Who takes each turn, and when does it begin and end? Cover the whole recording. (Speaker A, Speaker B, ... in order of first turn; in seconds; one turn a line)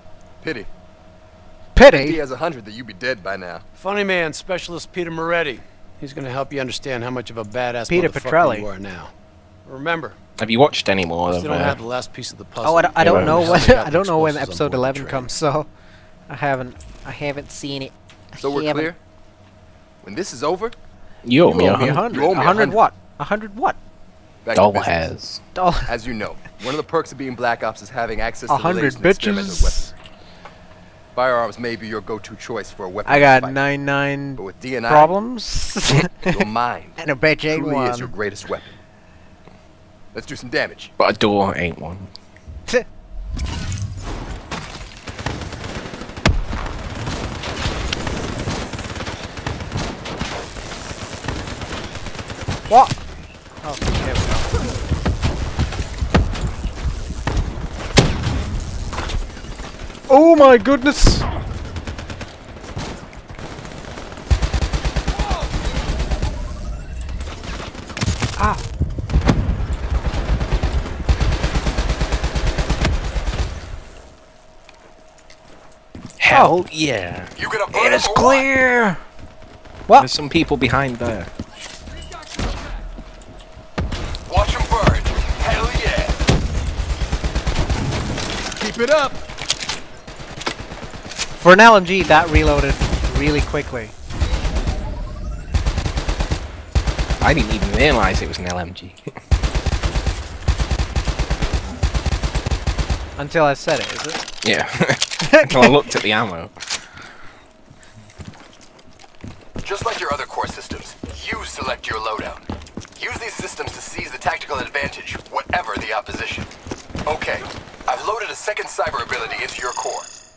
Speaker A: 0.4-0.7
Speaker B: 1.7-2.2
Speaker A: 1.9-3.6
Speaker C: 3.8-9.1
Speaker B: 7.9-8.7
Speaker C: 9.7-10.2
Speaker D: 10.4-11.8
Speaker C: 11.3-15.3
Speaker B: 12.6-15.7
Speaker D: 13.0-13.6
Speaker B: 16.3-18.9
Speaker A: 18.4-19.0
Speaker A: 20.0-20.8
Speaker D: 21.2-22.1
Speaker B: 21.4-23.8
Speaker A: 21.6-22.8
Speaker A: 24.4-25.0
Speaker D: 24.5-25.4
Speaker B: 25.5-25.9
Speaker A: 25.9-29.9
Speaker B: 28.5-29.9
Speaker A: 31.1-33.6
Speaker B: 33.0-36.4
Speaker A: 34.4-35.1
Speaker A: 36.2-37.0
Speaker B: 37.0-38.1
Speaker A: 37.5-38.7
Speaker A: 40.1-40.9
Speaker D: 41.0-42.1
Speaker B: 52.7-53.0
Speaker B: 53.6-54.5
Speaker B: 60.1-61.3
Speaker B: 68.4-68.6
Speaker D: 76.2-77.3
Speaker B: 76.3-76.7
Speaker A: 77.3-78.5
Speaker B: 77.7-79.0
Speaker D: 80.0-81.3
Speaker A: 84.3-86.2
Speaker A: 88.5-89.2
Speaker B: 91.4-93.9
Speaker D: 97.2-99.1
Speaker B: 103.2-104.3
Speaker D: 104.4-106.7
Speaker B: 105.2-106.0
Speaker A: 109.6-116.5
Speaker A: 117.0-120.1